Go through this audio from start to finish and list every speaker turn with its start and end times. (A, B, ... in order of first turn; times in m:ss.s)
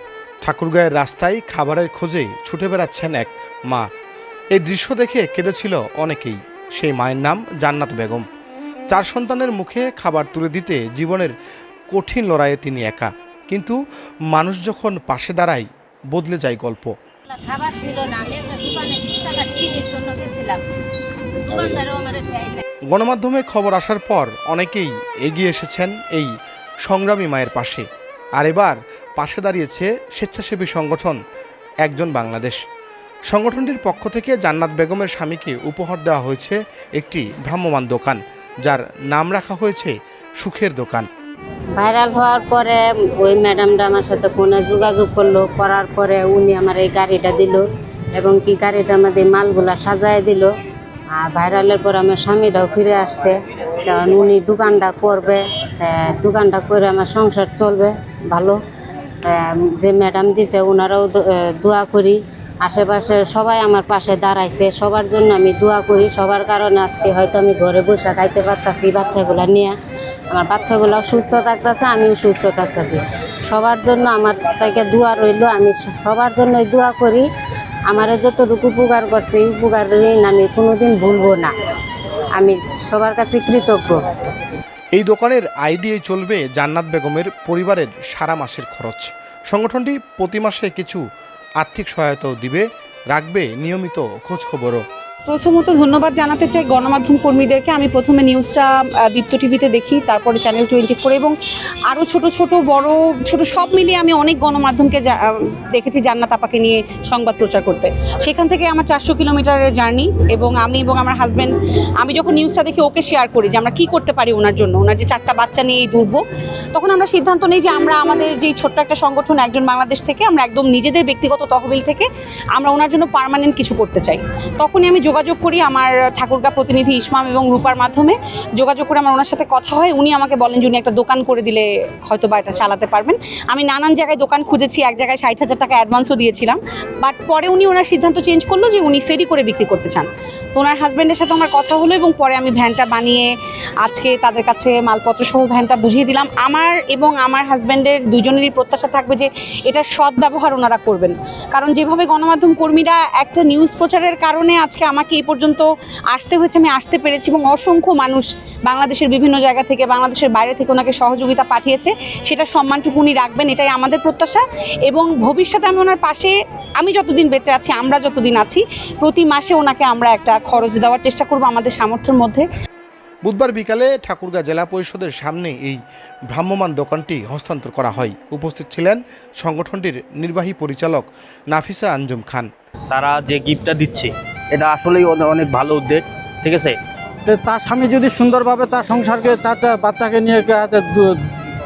0:00.4-0:03.9 A
0:04.5-0:08.2 A
0:08.9-0:11.3 A
0:11.9-0:13.8 A
0:14.3-0:16.9 A
0:17.3-0:20.6 B
0:21.4-0:22.6 B
0:22.9-0:26.3 A
0:26.8-0:27.8 A
0:28.4-0:31.2 A
0:31.8-0:32.6 A
0:33.3-0:41.1 A
0:41.8-0:47.6 B
0:48.1-0:50.5 B
0:51.1-0:58.6 B
0:59.2-1:09.8 B
1:10.3-1:17.3 B
1:17.9-1:21.5 B
1:22.3-1:24.0 B
1:24.9-1:31.0 A
1:31.6-1:34.8 A
1:35.3-1:41.4 C
1:41.9-2:23.3 C
2:23.8-2:52.4 C
2:53.2-3:02.5 A
3:02.9-3:06.7 D
3:07.2-3:11.2 E